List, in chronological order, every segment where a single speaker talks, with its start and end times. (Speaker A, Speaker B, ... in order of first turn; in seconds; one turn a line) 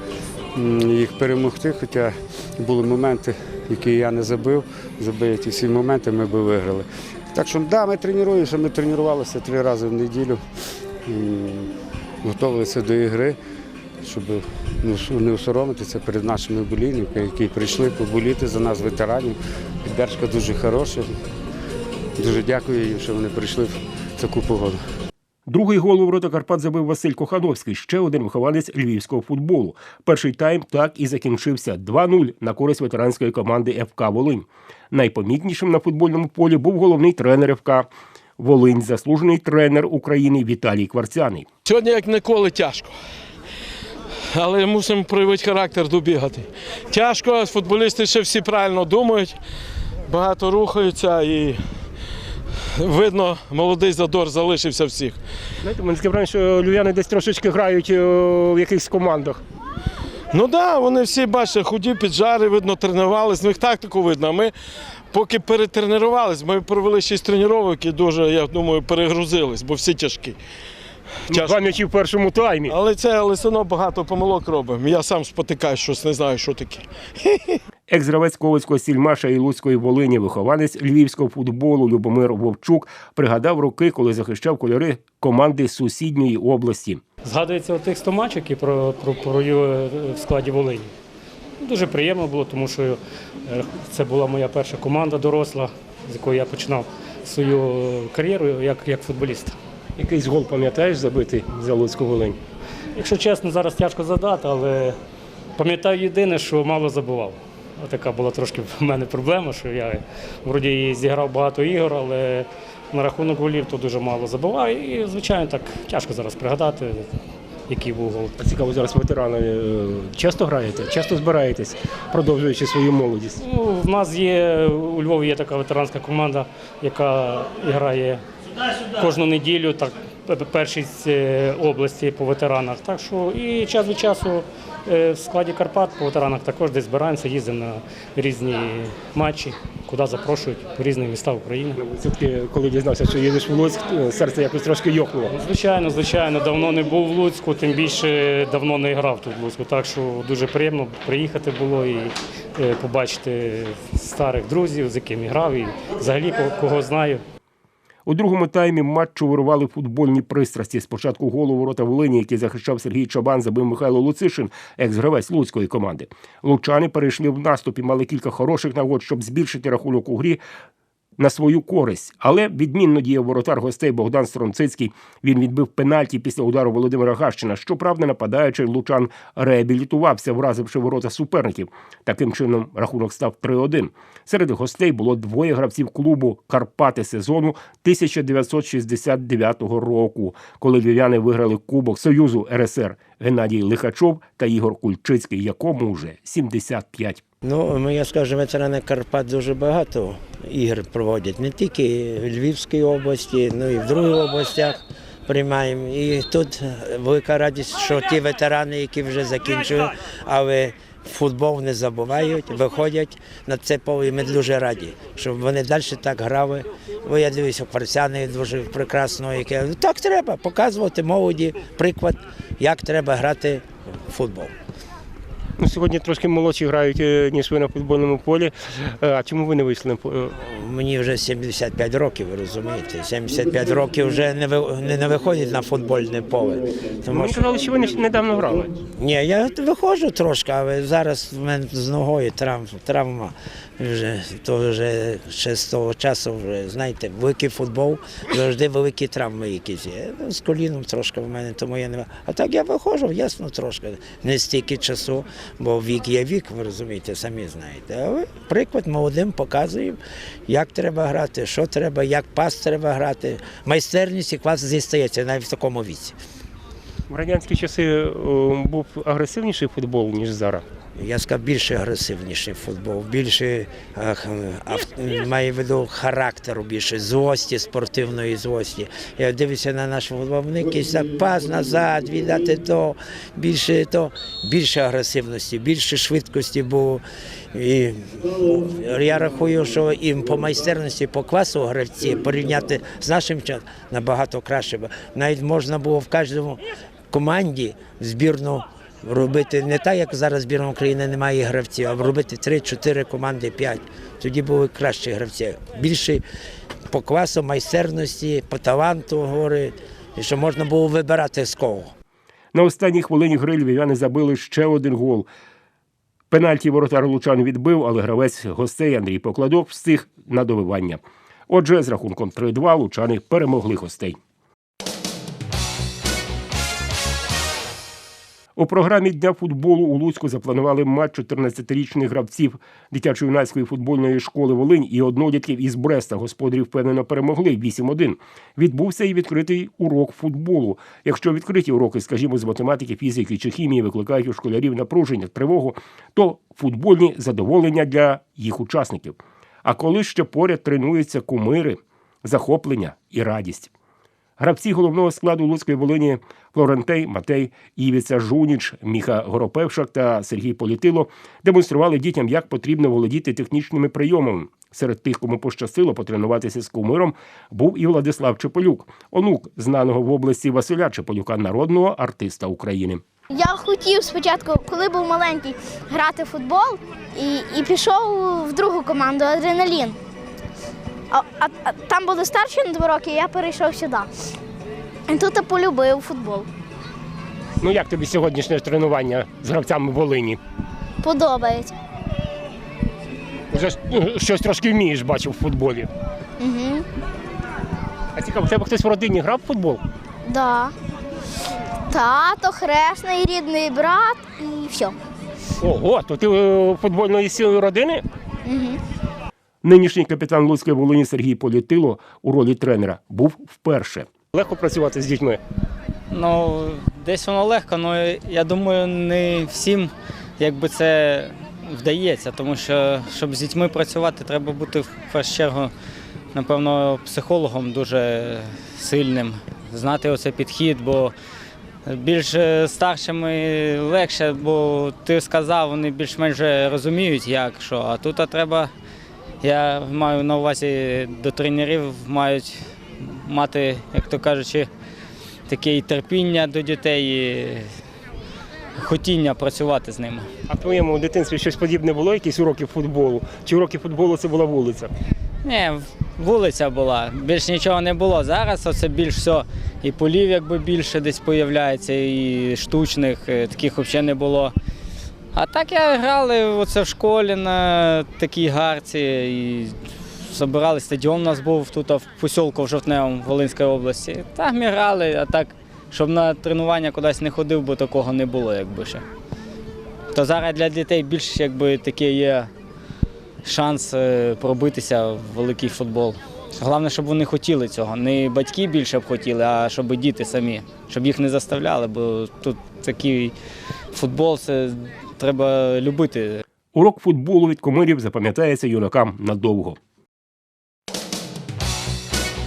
Speaker A: 0.5-10.4
Speaker A: 11.0-11.7
Speaker A: 12.2-13.4
Speaker A: 14.0-21.1
Speaker A: 22.2-24.8
Speaker B: 25.5-37.9
Speaker B: 38.4-41.5
Speaker C: 41.6-42.9
Speaker C: 44.3-49.4
Speaker C: 50.1-51.8
Speaker C: 52.8-55.2
Speaker B: 55.6-59.4
Speaker C: 60.3-64.5
Speaker C: 65.1-70.4
Speaker C: 71.3-71.6
Speaker B: 71.3-72.7
Speaker C: 72.7-77.6
Speaker B: 77.9-87.0
Speaker D: 87.2-90.9
Speaker D: 91.6-99.5
Speaker B: 100.0-102.4
Speaker D: 102.9-105.0
Speaker D: 105.6-117.1
Speaker D: 117.7-118.3
Speaker B: 118.4-123.4
Speaker D: 123.4-128.2
Speaker D: 128.9-141.8
Speaker B: 141.8-145.3
Speaker D: 145.3-157.2
Speaker B: 158.1-170.4
Speaker B: 171.2-197.2
Speaker E: 197.4-224.5
Speaker B: 225.6-230.3
Speaker E: 230.4-237.4
Speaker B: 237.1-238.8
Speaker E: 239.0-266.1
Speaker B: 267.1-270.6
Speaker E: 270.9-306.2
Speaker E: 306.9-311.9
Speaker B: 312.5-315.3
Speaker B: 316.3-324.2
Speaker B: 328.6-353.7
Speaker B: 354.4-373.0
Speaker F: 373.3-380.0
Speaker F: 381.1-384.1
Speaker F: 385.1-386.5
Speaker B: 387.6-390.4
Speaker F: 391.0-391.7
Speaker B: 393.5-395.9
Speaker F: 396.4-396.8
Speaker B: 398.1-399.8
Speaker F: 400.2-400.7
Speaker F: 401.9-404.9
Speaker B: 405.6-408.0
Speaker F: 408.4-408.8
Speaker B: 409.6-415.4
Speaker G: 416.1-425.7
Speaker G: 426.3-431.1
Speaker G: 431.9-438.7
Speaker G: 439.4-444.7
Speaker G: 445.5-447.7
Speaker G: 448.8-450.3
Speaker B: 450.5-454.9
Speaker G: 455.4-464.5
Speaker G: 465.3-479.0
Speaker G: 480.1-482.5
Speaker G: 483.4-493.3
Speaker G: 493.9-496.4
Speaker B: 496.7-499.8